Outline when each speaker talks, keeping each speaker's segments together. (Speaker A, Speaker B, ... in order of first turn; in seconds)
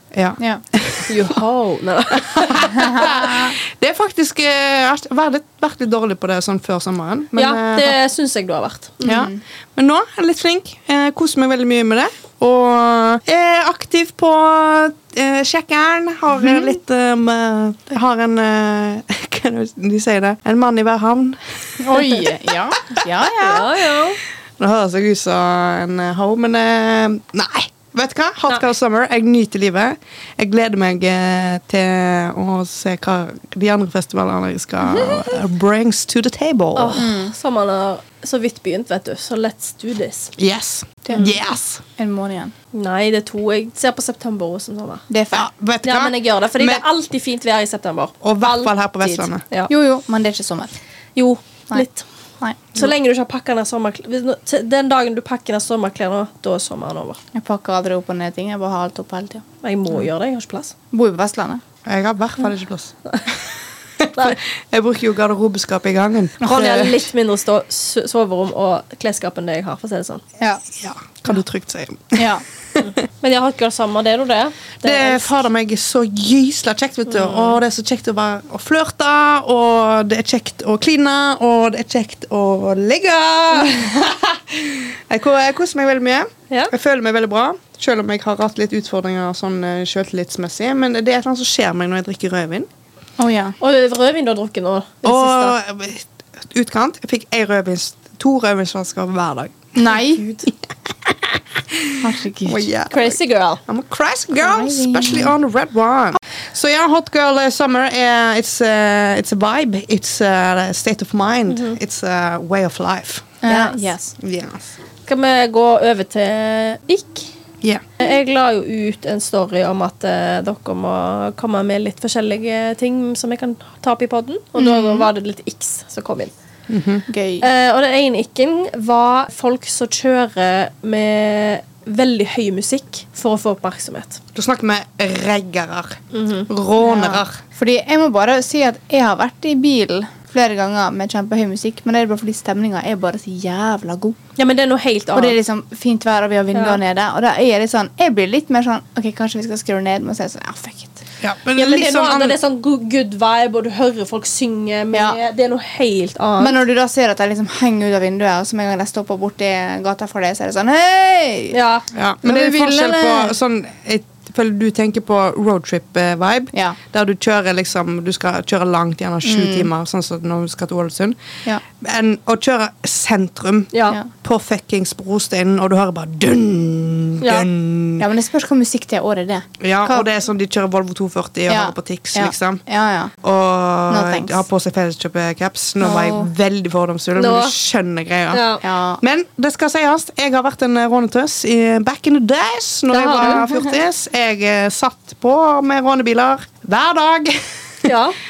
Speaker A: 0.1-1.3, 2.1-8.0, 9.0-21.4, 24.6-37.0, 40.4-41.8, 45.3-46.8, 48.2-49.4, 61.9-63.4, 64.0-66.4, 70.7-72.9, 74.8-92.7, 95.0-113.4, 114.2-114.7, 126.7-127.0, 134.3-137.4, 151.2-152.4, 161.9-171.2, 171.8-178.0, 179.6-182.6, 183.2-197.4
Speaker B: 1.1-3.2, 7.4-9.2, 23.4-24.2, 36.8-40.3, 42.7-45.0, 45.8-49.7, 51.1-52.0, 52.7-57.2, 59.6-60.7, 66.4-70.2, 73.2-75.3, 77.1-77.6, 93.6-95.5, 102.9-103.6, 111.5-111.8, 113.5-113.9, 115.1-117.3, 118.0-126.3, 127.4-134.2, 136.1-136.5, 144.4-145.4, 146.5-146.8, 151.6-156.6, 161.5-161.9, 173.7-174.0, 177.2-177.5, 187.2-187.5, 188.3-188.6, 192.9-193.5, 197.8-198.1
Speaker C: 2.7-3.5, 9.0-9.4, 16.4-16.7, 21.8-23.8, 34.9-35.2, 37.0-37.3, 41.0-41.3, 42.0-42.5, 45.1-45.5, 49.7-50.7, 57.4-59.4, 60.9-61.6, 66.4-67.1, 72.1-72.4, 93.2-93.6, 99.7-100.2, 102.0-102.7, 104.4-105.3, 113.4-114.1, 124.5-125.1, 127.1-127.5, 136.8-144.2, 145.1-151.0, 154.9-155.2, 156.4-161.6, 162.2-163.3, 169.2-169.7, 178.0-180.1, 181.5-183.1, 183.9-184.4, 185.8-186.3, 188.6-189.0